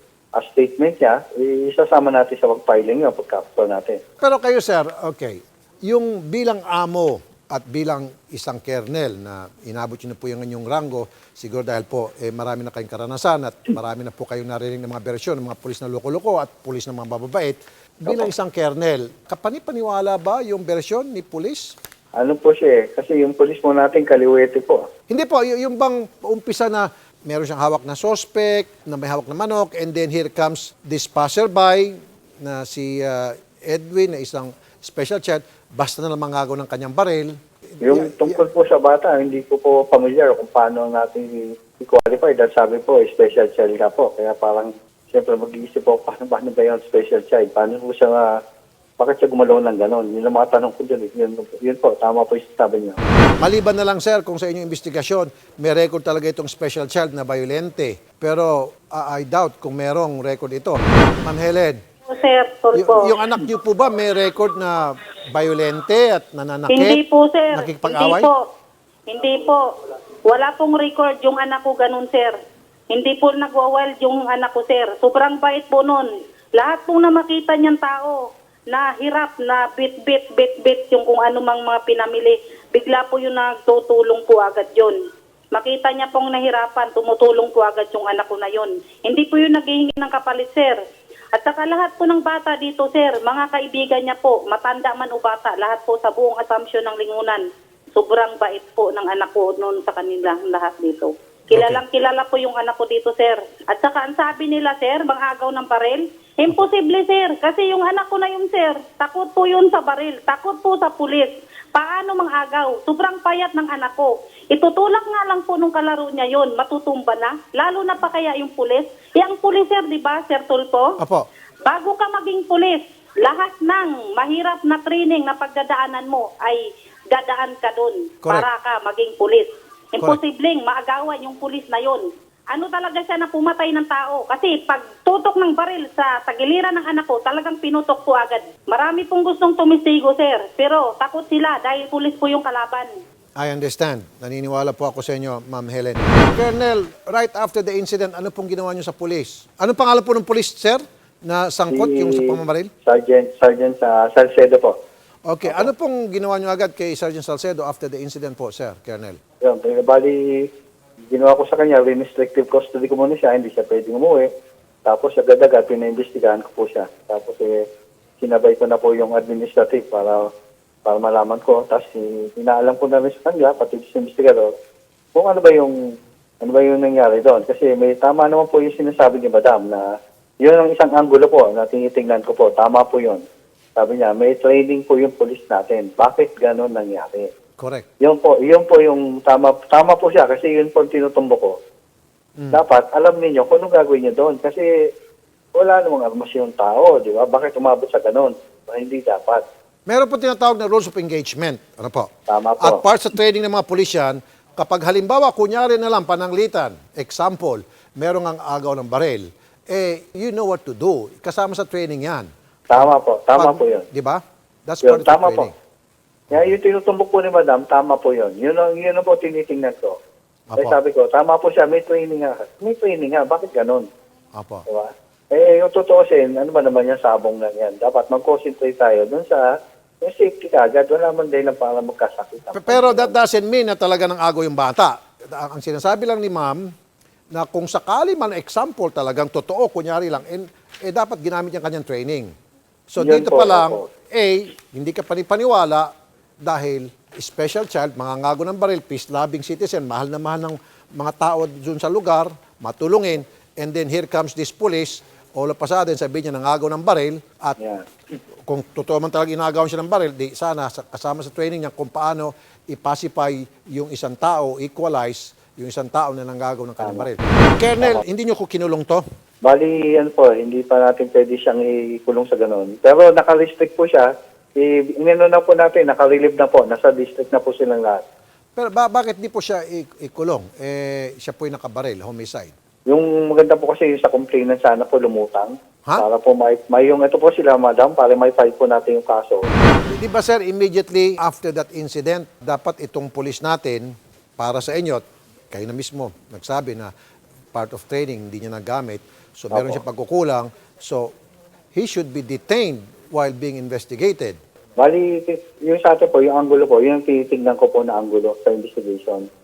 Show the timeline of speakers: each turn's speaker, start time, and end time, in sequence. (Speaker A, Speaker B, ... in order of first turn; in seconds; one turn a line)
Speaker A: 0.3-4.0
Speaker B: 4.2-21.7
Speaker A: 22.1-24.9
Speaker B: 25.1-38.4
Speaker A: 37.8-48.4
Speaker A: 49.0-53.0
Speaker B: 53.4-61.8
Speaker C: 62.1-63.1
Speaker B: 62.7-67.0
Speaker C: 66.7-68.4
Speaker B: 67.5-68.3
Speaker C: 69.1-69.6
Speaker C: 70.2-72.3
Speaker C: 72.9-78.2
Speaker C: 78.7-85.0
Speaker C: 85.5-90.8
Speaker C: 91.3-121.0
Speaker B: 101.5-101.8
Speaker B: 121.0-121.2
Speaker C: 121.6-142.9
Speaker B: 143.4-152.7
Speaker A: 151.7-152.3
Speaker A: 152.8-154.8
Speaker B: 155.3-159.2
Speaker A: 159.4-160.4
Speaker A: 161.1-164.3
Speaker A: 164.8-167.6
Speaker A: 168.2-170.2
Speaker A: 170.8-174.5
Speaker A: 175.1-175.7
Speaker A: 176.4-179.8
Speaker A: 180.4-183.2
Speaker A: 183.8-187.3
Speaker B: 187.6-187.8
Speaker A: 188.0-191.6
Speaker B: 192.4-192.6
Speaker A: 192.5-194.9
Speaker A: 195.5-199.4
Speaker B: 199.9-202.1
Speaker A: 202.3-202.8
Speaker B: 202.6-215.5
Speaker A: 212.7-213.9
Speaker A: 214.8-215.5
Speaker A: 216.3-220.0
Speaker B: 220.5-220.8
Speaker A: 220.6-223.8
Speaker B: 224.3-224.6
Speaker A: 224.7-233.1
Speaker B: 232.5-236.7
Speaker B: 237.3-242.3
Speaker B: 242.9-245.9
Speaker A: 243.0-243.8
Speaker B: 246.4-257.6
Speaker A: 257.6-257.9
Speaker B: 258.5-269.0
Speaker A: 266.8-267.1
Speaker A: 269.4-278.0
Speaker B: 278.6-282.5
Speaker A: 282.9-289.5
Speaker B: 289.9-296.9
Speaker B: 297.5-301.1
Speaker A: 299.5-299.8
Speaker B: 301.7-304.4
Speaker A: 304.8-309.2